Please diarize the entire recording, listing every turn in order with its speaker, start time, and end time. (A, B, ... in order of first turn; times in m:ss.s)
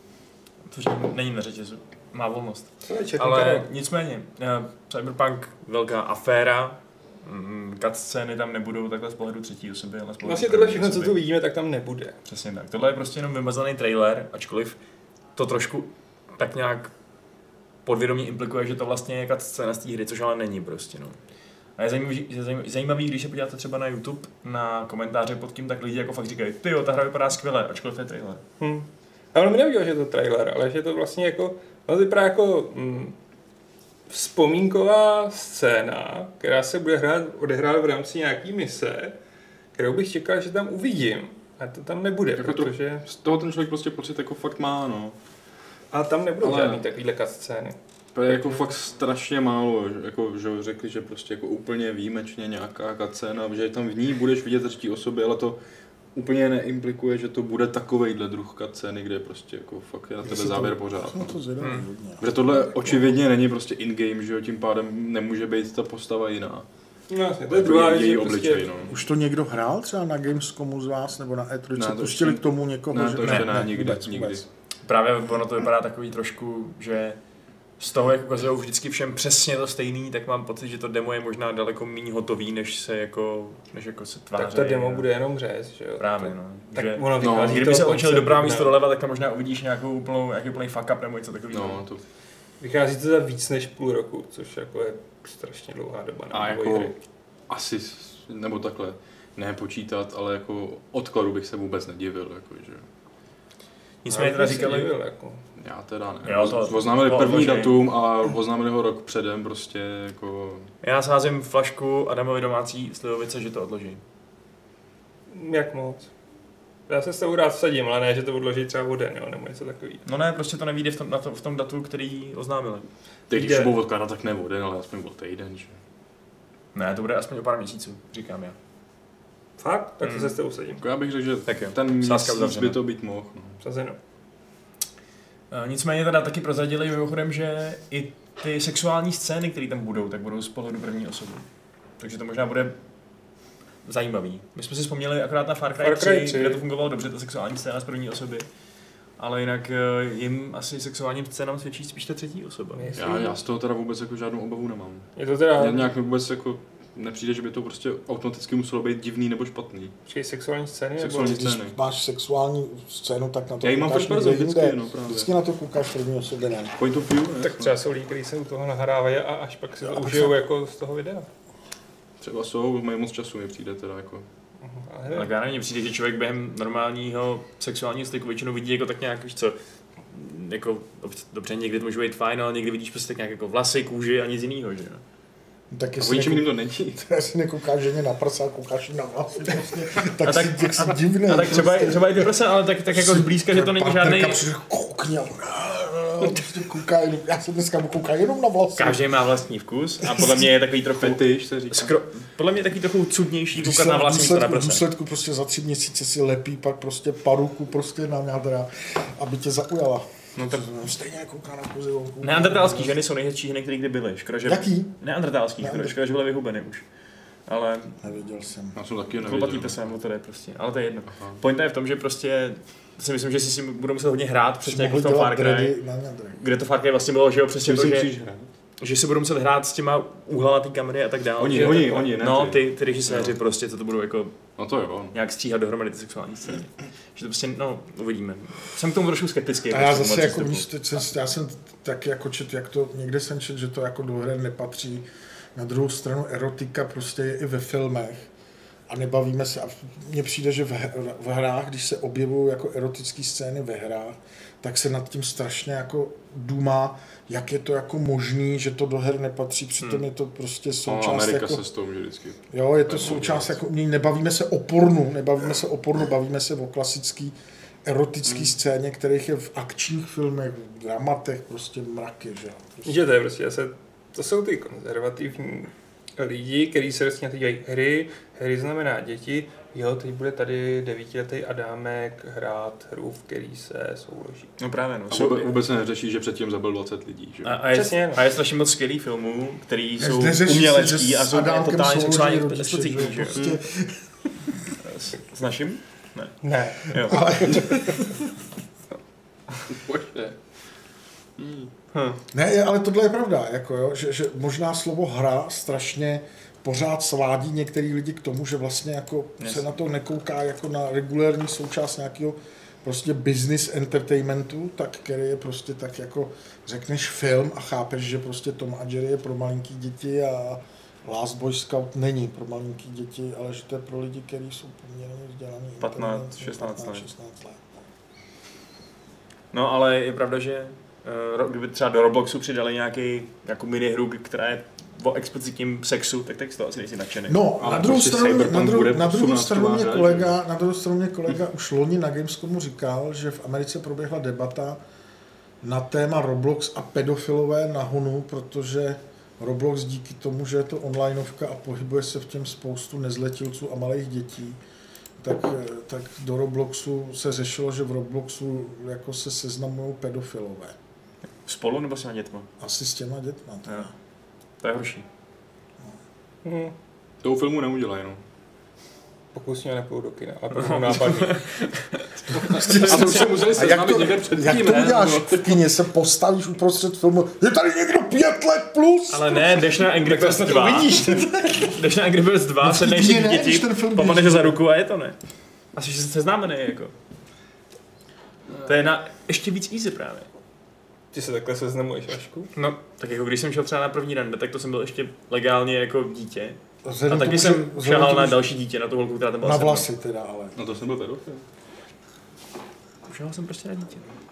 0:00.7-0:11.2 A
0:02.8-0:03.7 B
0:10.2-0:12.2 B
0:12.2-0:14.8 A
0:15.4-0:16.9 A
0:17.8-0:21.2 A
0:21.8-0:28.4 A
0:28.6-0:33.2 B
0:34.1-0:39.2 B
0:39.7-0:43.0 B
0:42.4-0:45.2 C
0:45.9-0:47.8 B
0:46.4-0:46.8 C
0:48.1-0:55.6 C
0:48.3-0:48.7 B
0:56.1-1:01.3 C
1:00.2-1:02.3 D
1:02.2-1:06.6 C
1:07.1-1:08.8 B
1:07.5-1:09.0 C
1:08.9-1:14.4 D
1:11.7-1:14.4 C
1:13.2-1:13.6 A
1:14.8-1:17.2 A
1:17.8-1:25.1 A
1:24.3-1:28.8 B
1:26.0-1:31.8 A
1:27.2-1:27.8 C
1:31.5-1:32.0 C
1:32.6-1:36.9 B
1:36.3-1:36.9 C
1:37.5-1:42.8 C
1:44.0-1:44.9 A
1:44.1-1:45.4 B
1:45.6-1:50.7 C
1:46.2-1:47.8 A
1:50.8-1:54.0 A
1:55.3-1:56.1 B
1:56.9-2:00.0 B
2:00.0-2:02.9 A
2:03.3-2:05.8 C
2:03.3-2:03.7 B
2:06.7-2:08.6 A
2:09.6-2:10.8 B
2:10.0-2:10.3 A
2:10.8-2:13.6 C
2:11.5-2:12.8 A
2:13.6-2:14.0 B
2:15.5-2:21.4 A
2:22.0-2:22.8 A
2:23.8-2:28.5 A
2:25.8-2:26.6 B
2:29.2-2:33.0 A
2:32.7-2:33.4 B
2:33.0-2:39.9 C
2:35.2-2:35.9 B
2:40.0-2:41.4 B
2:41.0-2:41.8 C
2:41.2-2:46.8 D
2:43.6-2:45.3 C
2:46.8-2:47.7 C
2:47.4-2:51.3 B
2:49.9-2:50.3 D
2:52.2-2:54.2 C
2:54.6-2:55.3 B
2:55.1-2:59.6 A
3:00.1-3:05.0 A
3:05.7-3:12.3 D
3:06.0-3:07.0 C
3:10.1-3:14.4 A
3:12.9-3:19.0 D
3:18.8-3:24.8 A
3:20.0-3:20.4 D
3:21.0-3:22.0 C
3:23.5-3:33.0 D
3:30.4-3:30.7 A
3:32.2-3:36.8 A
3:34.4-3:34.9 D
3:35.6-3:36.0 D
3:37.5-3:38.0 A
3:38.0-3:38.8 D
3:38.7-3:39.8 C
3:39.2-3:45.7 A
3:41.1-3:41.4 C
3:44.6-3:46.4 D
3:46.4-3:48.1 A
3:47.6-3:48.5 C
3:48.8-3:54.4 A
3:51.4-3:53.3 C
3:51.5-3:51.8 B
3:54.6-3:55.2 C
3:55.1-4:00.6 A
3:59.7-4:08.3 D
4:08.9-4:21.6 D
4:20.8-4:23.6 C
4:22.5-4:33.0 D
4:32.8-4:44.6 B
4:44.6-4:45.5 A
4:45.1-4:47.6 C
4:47.4-4:53.4 A
4:47.7-4:48.2 B
4:50.0-4:54.0 D
4:53.3-4:53.6 C
4:54.8-4:57.7 A
4:56.4-4:57.2 B
4:57.0-4:58.1 D
4:59.7-5:00.4 C
5:01.4-5:01.7 C
5:01.9-5:02.2 A
5:02.3-5:27.6 D
5:25.8-5:27.1 A
5:29.5-5:37.4 A
5:37.3-5:44.8 D
5:37.6-5:40.3 C
5:45.6-5:54.6 D
5:55.2-6:00.7 D
6:01.4-6:02.5 A
6:02.6-6:03.9 D
6:04.6-6:05.1 A
6:06.4-6:06.7 B
6:07.2-6:08.2 C
6:09.3-6:11.4 B
6:10.5-6:12.1 A
6:12.3-6:15.6 C
6:12.4-6:19.6 D
6:19.1-6:25.2 A
6:20.0-6:21.5 B
6:21.0-6:21.7 D
6:22.6-6:24.6 D
6:25.7-6:26.9 A
6:28.6-6:30.3 A
6:31.1-6:32.5 B
6:32.5-6:39.8 A
6:36.8-6:38.5 D
6:39.4-6:40.6 D
6:40.5-6:41.4 C
6:43.1-6:44.1 A